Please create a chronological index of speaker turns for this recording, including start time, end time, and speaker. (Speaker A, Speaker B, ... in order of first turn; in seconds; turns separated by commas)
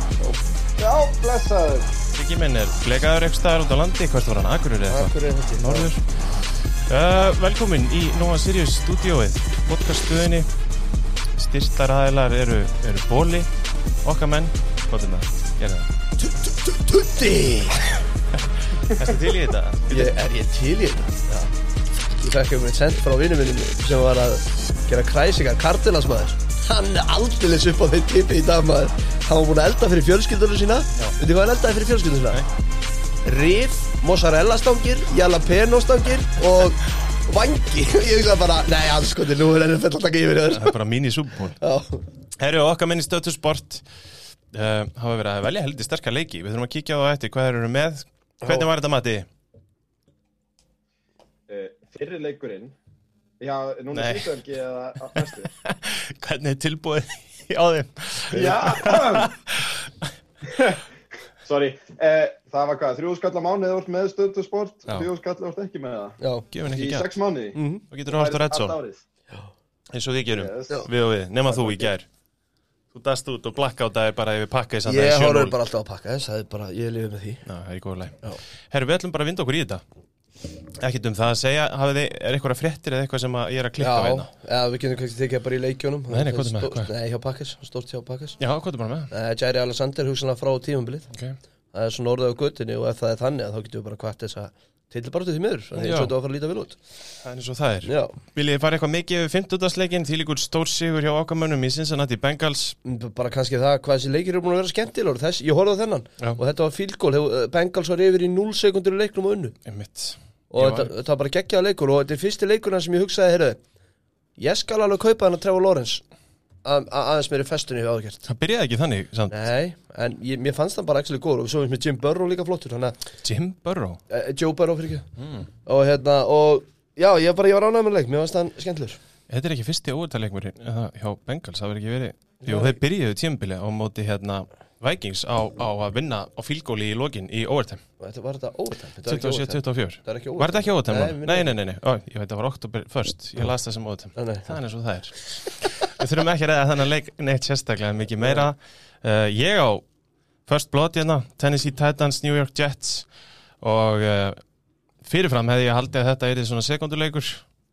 Speaker A: 0.8-1.9, Speaker B: 2.1-6.0, Speaker C: 4.9-5.9, Speaker B: 6.9-10.5, Speaker B: 11.3-13.5, Speaker B: 14.0-15.9, Speaker C: 16.2-18.0, Speaker B: 18.9-20.1, Speaker C: 19.9-21.5, Speaker C: 22.2-32.4, Speaker C: 33.2-40.7, Speaker B: 40.5-41.6, Speaker C: 41.6-42.0, Speaker B: 42.4-43.9, Speaker B: 44.5-49.3, Speaker A: 51.5-52.7, Speaker A: 53.4-55.5, Speaker B: 53.9-54.3, Speaker B: 55.1-60.1, Speaker A: 58.3-59.3, Speaker A: 60.5-60.8, Speaker A: 61.4-66.2, Speaker C: 66.2-66.5, Speaker B: 66.5-67.1, Speaker A: 66.7-69.0, Speaker C: 67.5-67.8, Speaker B: 67.9-68.7, Speaker B: 69.9-72.1, Speaker A: 70.4-70.9, Speaker B: 72.9-75.5, Speaker C: 74.8-77.4, Speaker B: 77.5-78.2, Speaker B: 78.7-79.8, Speaker B: 80.8-84.3, Speaker C: 83.8-88.4, Speaker B: 86.1-86.9, Speaker B: 88.4-89.1, Speaker C: 89.1-91.1, Speaker B: 91.1-91.4, Speaker C: 91.7-96.8, Speaker B: 95.7-96.1, Speaker B: 97.2-102.8, Speaker C: 97.8-98.2, Speaker C: 102.8-109.5, Speaker B: 109.7-110.9, Speaker C: 110.5-113.6, Speaker C: 114.4-116.0, Speaker C: 116.6-118.2, Speaker B: 118.3-119.4, Speaker C: 119.3-123.0, Speaker B: 123.2-124.0, Speaker C: 124.1-125.0, Speaker B: 125.2-125.5, Speaker C: 125.7-129.0, Speaker B: 129.3-137.8, Speaker C: 132.4-132.8, Speaker C: 138.0-141.5, Speaker B: 139.1-149.8, Speaker C: 144.1-144.5, Speaker B: 150.5-153.1, Speaker B: 153.6-154.4, Speaker B: 155.0-157.4